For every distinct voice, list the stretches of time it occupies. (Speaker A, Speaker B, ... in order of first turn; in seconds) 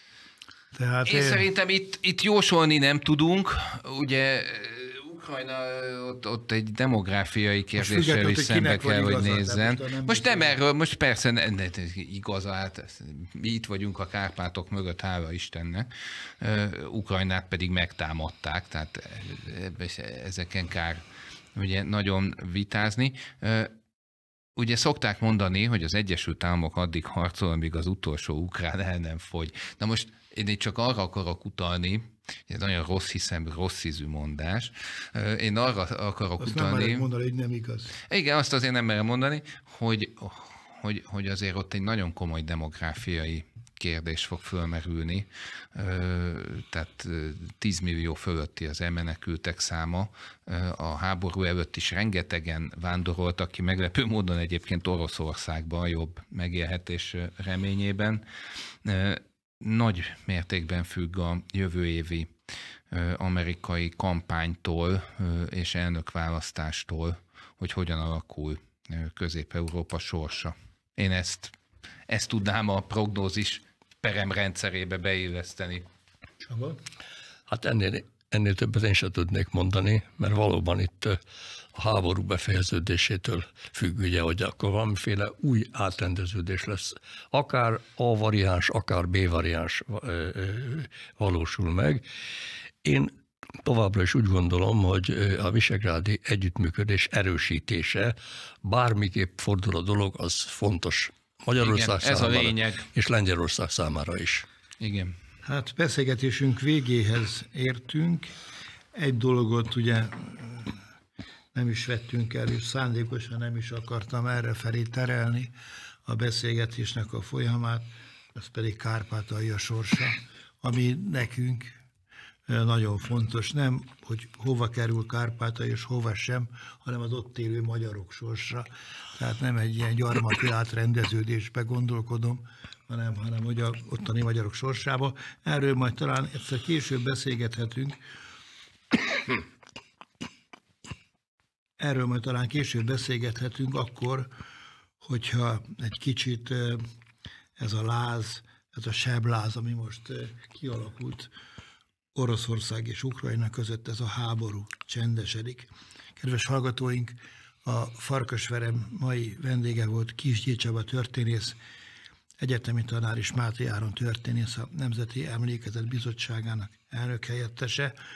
Speaker A: 0.7-1.5, 7.8-10.6, 36.4-38.0, 76.5-76.8, 105.4-108.4, 108.9-110.8, 111.5-115.5, 116.1-121.8, 122.5-138.0, 141.8-144.3, 145.0-146.9, 147.6-151.3, 152.2-161.6, 162.4-167.9
Speaker B: 1.1-21.0, 21.6-23.7, 24.6-37.1, 38.1-58.2, 58.8-62.3, 62.9-71.5, 72.1-75.8, 101.6-102.9, 104.8-105.2
Speaker C: 77.5-81.2, 81.8-92.0, 92.8-93.1, 93.6-104.5